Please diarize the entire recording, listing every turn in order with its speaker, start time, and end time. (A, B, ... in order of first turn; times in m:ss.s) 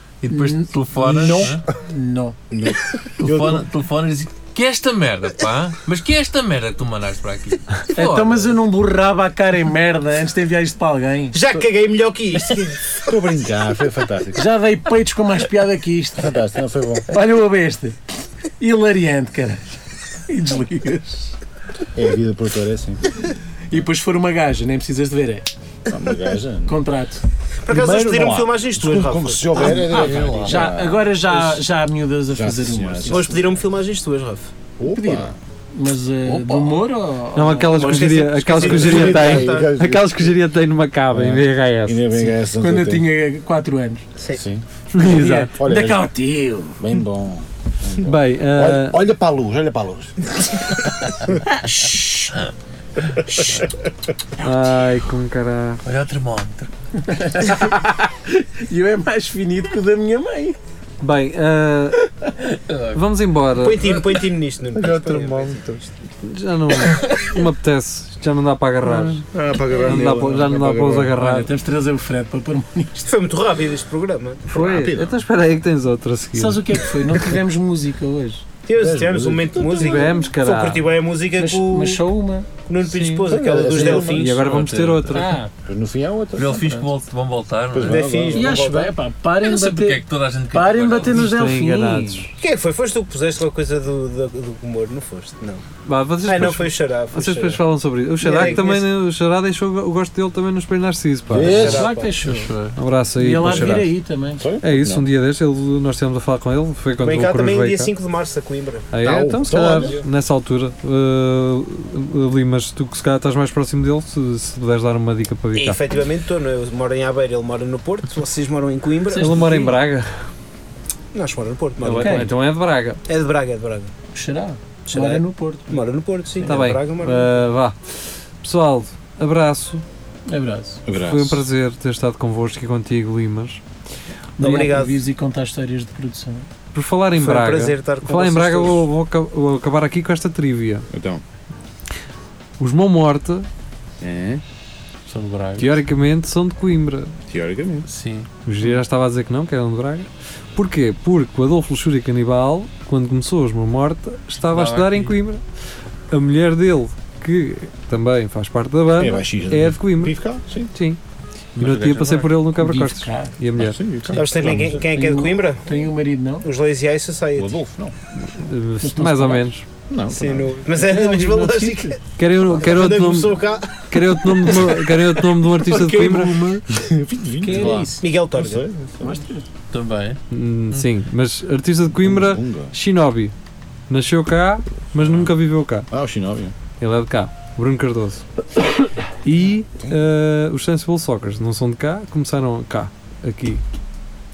0:00.2-0:01.6 A
0:00.3-0:02.4 B
0:01.0-0:01.6 C
0:02.5-0:03.6 C
0:03.2-0:08.5 A
0:07.9-0:11.4 B
0:11.3-0:13.0 D
0:13.0-0:14.5 C
0:14.3-0:16.4 B
0:16.2-0:17.1 C
0:17.1-0:18.0 B
0:18.6-0:21.3 B
0:21.9-0:23.0 C
0:23.7-0:25.5 B
0:25.9-0:26.7 C
0:26.6-0:27.2 B
0:27.6-0:29.8 D
0:27.7-0:31.6 C
0:29.6-0:33.5 B
0:29.8-0:30.7 A
0:32.3-0:33.4 C
0:33.1-0:34.5 D
0:34.8-0:35.4 C
0:34.9-0:39.1 B
0:36.2-0:36.8 C
0:37.3-0:42.1 E
0:37.8-0:39.7 D
0:38.6-0:40.3 C
0:41.1-0:43.1 C
0:42.5-0:44.0 B
0:44.2-0:44.4 D
0:44.3-0:44.6 C
0:44.9-0:46.0 E
0:45.0-0:46.7 B
0:45.2-0:46.1 C
0:46.7-0:50.8 C
0:48.0-0:49.0 E
0:51.4-0:52.2 B
0:54.4-0:55.8 E
0:55.8-0:56.7 A
0:57.0-1:00.6 B
1:01.0-1:02.0 E
1:02.3-1:02.6 B
1:02.7-1:03.0 A
1:02.9-1:03.9 E
1:03.6-1:05.8 D
1:03.8-1:04.1 A
1:04.7-1:05.8 C
1:06.2-1:09.2 E
1:08.8-1:11.1 C
1:09.8-1:11.5 E
1:11.1-1:13.1 B
1:13.0-1:14.5 D
1:14.5-1:15.2 C
1:14.5-1:16.8 E
1:16.3-1:18.4 B
1:18.6-1:22.0 D
1:18.8-1:20.1 C
1:19.7-1:21.0 E
1:21.4-1:22.5 B
1:22.7-1:24.5 D
1:23.2-1:24.3 C
1:23.7-1:25.4 E
1:24.3-1:25.3 A
1:25.1-1:25.5 B
1:25.6-1:26.5 C
1:26.4-1:28.0 A
1:26.4-1:26.9 B
1:27.7-1:28.9 C
1:27.8-1:28.9 D
1:28.3-1:32.3 B
1:29.4-1:31.5 A
1:31.1-1:32.3 E
1:32.4-1:35.6 D
1:35.8-1:41.9 E
1:36.2-1:37.6 D
1:38.2-1:38.8 D
1:41.3-1:41.9 C
1:41.4-1:42.1 D
1:41.5-1:42.6 B
1:42.2-1:42.8 A
1:42.8-1:43.9 E
1:43.2-1:44.4 B
1:44.4-1:45.1 C
1:44.6-1:47.9 E
1:47.0-1:48.9 D
1:48.9-1:56.0 E
1:49.0-1:50.0 C
1:49.5-1:50.0 D
1:55.5-1:59.6 D
1:59.1-1:59.8 B
1:59.1-2:00.1 E
2:01.1-2:02.3 D
2:01.8-2:03.0 E
2:01.9-2:02.3 B
2:03.1-2:03.9 D
2:04.1-2:05.8 B
2:04.8-2:07.3 D
2:06.4-2:06.6 B
2:06.4-2:07.9 E
2:08.4-2:09.8 E
2:10.3-2:10.8 B
2:10.8-2:11.4 C
2:10.9-2:13.6 E
2:14.4-2:16.5 B
2:14.4-2:15.0 D
2:16.7-2:20.9 E
2:17.2-2:18.8 D
2:20.9-2:21.2 C
2:22.6-2:23.5 E
2:24.0-2:24.4 C
2:25.1-2:25.8 A
2:25.6-2:27.1 E
2:27.3-2:27.9 C
2:27.8-2:28.3 A
2:28.4-2:35.4 E
2:34.4-2:35.1 A
2:36.1-2:40.2 E
2:39.0-2:40.7 C
2:40.7-2:41.0 E
2:41.6-2:42.3 A
2:41.6-2:43.8 E
2:42.6-2:43.3 B
2:43.6-2:44.8 C
2:44.0-2:46.5 B
2:44.1-2:45.6 D
2:46.4-2:47.5 D
2:47.4-2:47.9 C
2:48.2-2:49.6 E
2:48.8-2:49.5 B
2:49.9-2:50.6 C
2:50.1-2:55.0 D
2:50.7-2:52.0 B
2:52.2-2:56.6 E
2:55.6-2:56.4 D
2:56.7-2:59.2 C
2:57.4-2:58.0 B
2:58.0-2:58.7 D
2:59.0-2:59.4 B
2:59.7-3:00.2 A
3:00.3-3:03.3 E
3:01.9-3:02.7 C
3:03.9-3:05.9 E
3:04.9-3:05.3 C
3:05.9-3:06.5 C
3:06.8-3:08.2 E
3:09.2-3:13.6 E